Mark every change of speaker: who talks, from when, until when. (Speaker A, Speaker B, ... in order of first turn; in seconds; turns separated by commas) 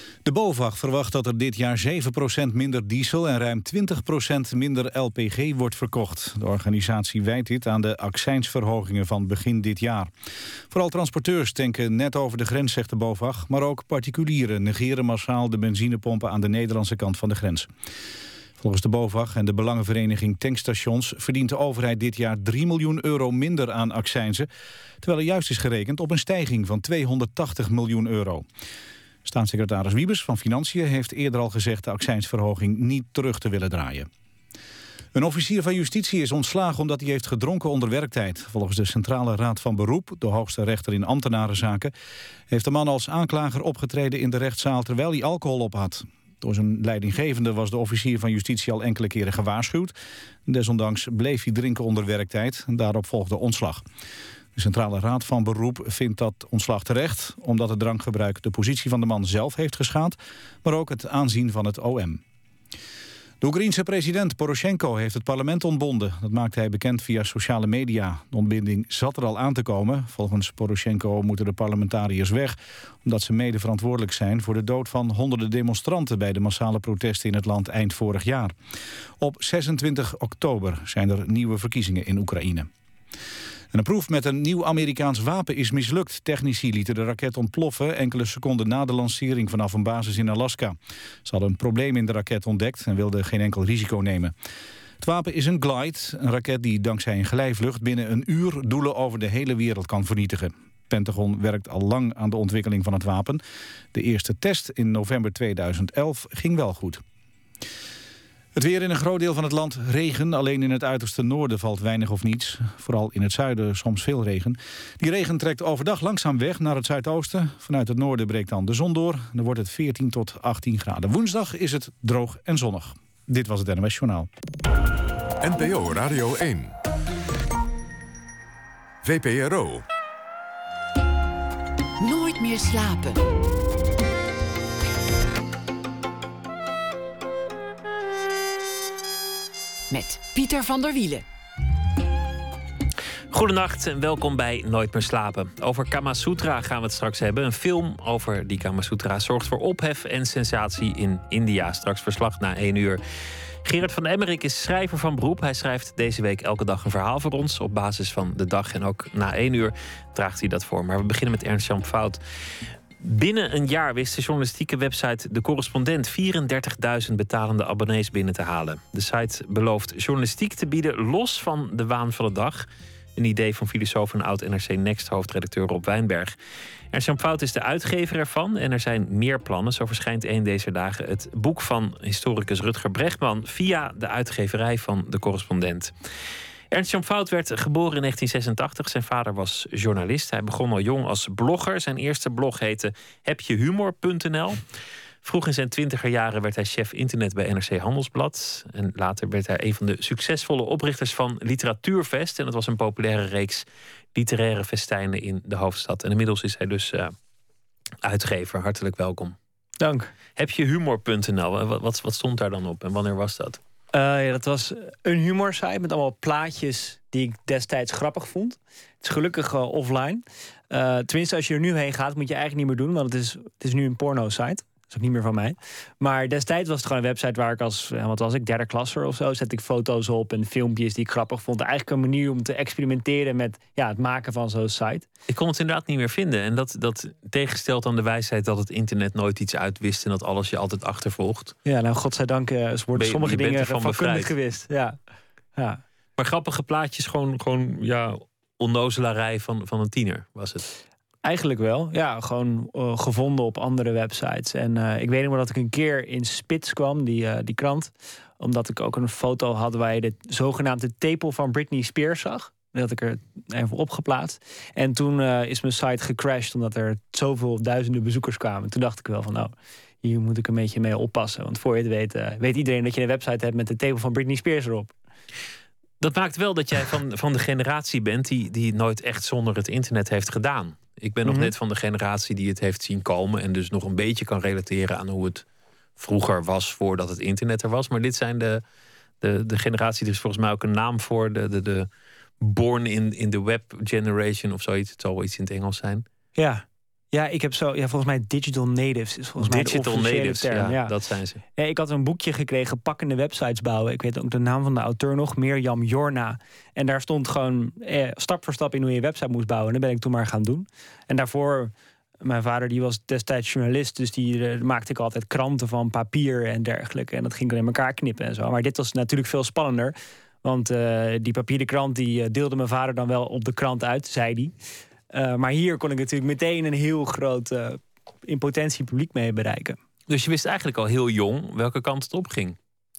Speaker A: 0.2-10.1, Speaker A: 10.7-17.7, Speaker A: 18.6-24.5, Speaker A: 25.0-28.4, Speaker A: 29.2-34.1, Speaker A: 35.1-41.9, Speaker A: 42.5-53.8, Speaker A: 54.5-62.2, Speaker A: 63.4-78.5, Speaker A: 79.2-82.7, Speaker A: 83.7-94.3, Speaker A: 95.0-103.4, Speaker A: 103.9-107.0, Speaker A: 108.5-124.3, Speaker B: 125.4-126.8, Speaker B: 129.0-129.8, Speaker C: 132.0-133.2, Speaker C: 139.9-141.2, Speaker D: 143.3-153.0, Speaker D: 153.6-162.2, Speaker D: 163.0-172.6, Speaker D: 173.2-176.3, Speaker D: 176.9-185.9, Speaker D: 186.7-194.6, Speaker D: 195.2-207.1, Speaker D: 208.0-209.3, Speaker E: 209.8-210.1, Speaker D: 210.3-213.6, Speaker E: 213.9-235.1, Speaker D: 235.3-241.5, Speaker E: 241.6-244.9, Speaker D: 243.0-244.3, Speaker E: 245.6-245.8, Speaker D: 246.2-250.6, Speaker E: 251.2-274.9, Speaker D: 276.0-285.4, Speaker E: 281.2-281.5, Speaker D: 286.0-288.6, Speaker D: 289.2-291.9, Speaker D: 292.4-296.0, Speaker E: 296.4-300.9, Speaker D: 299.4-301.4, Speaker E: 301.6-324.5, Speaker E: 325.1-329.8, Speaker D: 330.1-332.6